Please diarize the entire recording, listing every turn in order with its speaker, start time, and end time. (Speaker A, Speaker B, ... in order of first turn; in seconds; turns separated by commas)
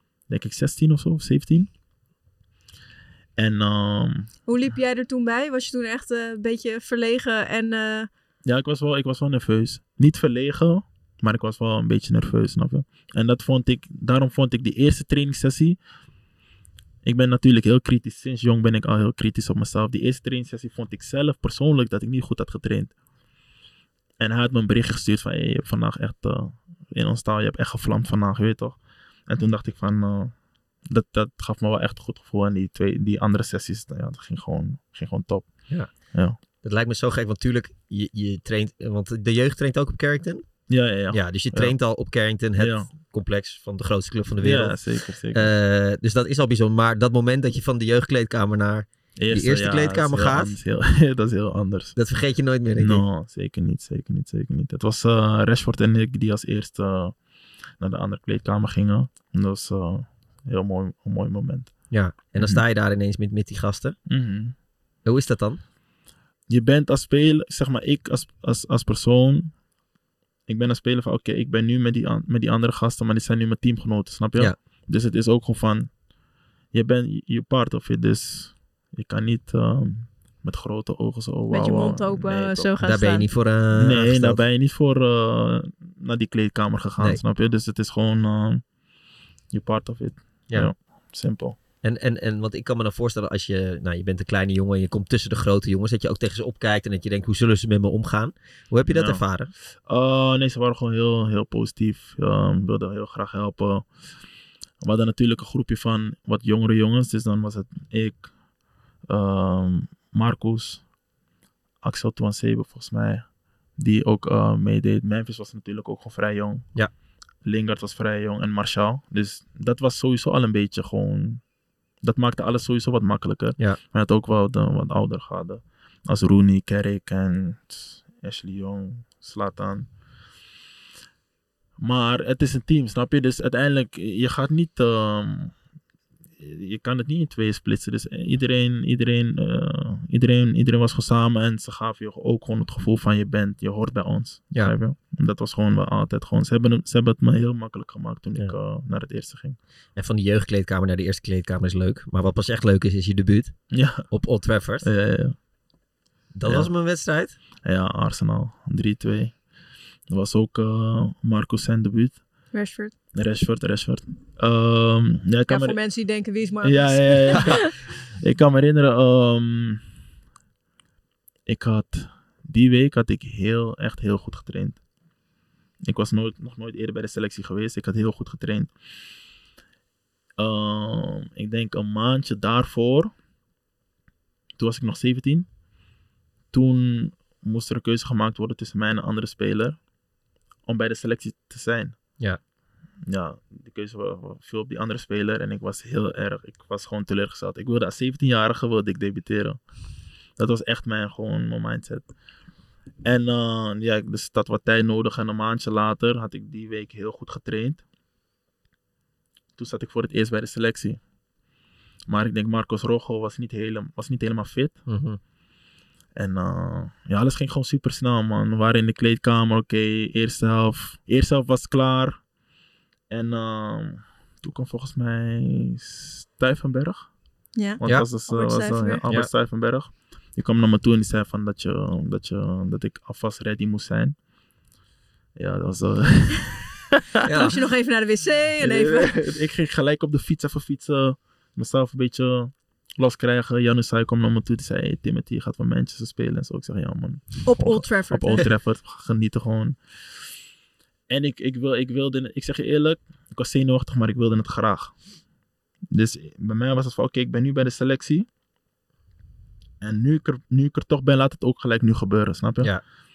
Speaker A: 0.3-1.7, Speaker A: 3.4-4.3, Speaker B: 4.5-8.1, Speaker A: 8.4-15.8, Speaker A: 17.0-22.9, Speaker A: 24.2-30.3, Speaker A: 30.9-35.5, Speaker A: 36.1-36.4, Speaker C: 36.6-40.5, Speaker A: 40.7-41.8, Speaker C: 41.1-44.8, Speaker A: 42.6-42.9, Speaker A: 44.4-45.5, Speaker C: 45.3-50.5, Speaker A: 49.2-52.0, Speaker C: 52.0-53.0, Speaker A: 52.8-57.1, Speaker A: 57.8-61.7, Speaker C: 61.9-64.0, Speaker A: 62.4-62.6, Speaker A: 64.1-64.5, Speaker C: 65.0-65.6, Speaker A: 66.5-69.5, Speaker A: 70.5-75.9, Speaker A: 76.7-82.7, Speaker B: 81.5-83.2, Speaker C: 82.8-84.4, Speaker A: 83.7-88.6, Speaker A: 89.5-91.6, Speaker C: 91.8-99.5, Speaker A: 98.9-99.2, Speaker A: 99.9-103.9, Speaker A: 104.8-108.3, Speaker A: 109.1-110.8, Speaker A: 111.8-113.2, Speaker A: 113.8-116.7, Speaker A: 117.4-121.4, Speaker A: 122.0-129.9, Speaker A: 131.8-135.5, Speaker A: 136.4-149.6, Speaker C: 149.9-153.6, Speaker A: 153.7-154.1, Speaker C: 154.1-154.9, Speaker A: 154.8-155.3, Speaker C: 156.3-157.3, Speaker A: 156.4-156.7, Speaker A: 157.6-159.3, Speaker A: 160.1-162.2, Speaker B: 162.5-162.9, Speaker A: 163.1-165.8, Speaker B: 165.5-167.7, Speaker A: 166.6-169.8, Speaker A: 171.4-174.8, Speaker A: 175.8-178.7, Speaker A: 180.4-183.1, Speaker A: 184.6-185.5, Speaker A: 186.5-189.8, Speaker A: 190.7-191.9, Speaker A: 193.1-199.6, Speaker A: 200.4-202.1, Speaker A: 203.0-207.8, Speaker A: 209.6-211.0, Speaker A: 212.1-214.8, Speaker C: 214.9-215.2, Speaker A: 216.2-222.2, Speaker A: 223.1-227.1, Speaker B: 227.6-229.0, Speaker A: 227.8-234.2, Speaker A: 235.3-237.5, Speaker C: 237.2-237.5, Speaker B: 237.3-239.3, Speaker A: 238.6-249.8, Speaker B: 247.4-248.5, Speaker A: 251.1-254.9, Speaker A: 255.9-258.3, Speaker A: 259.8-262.7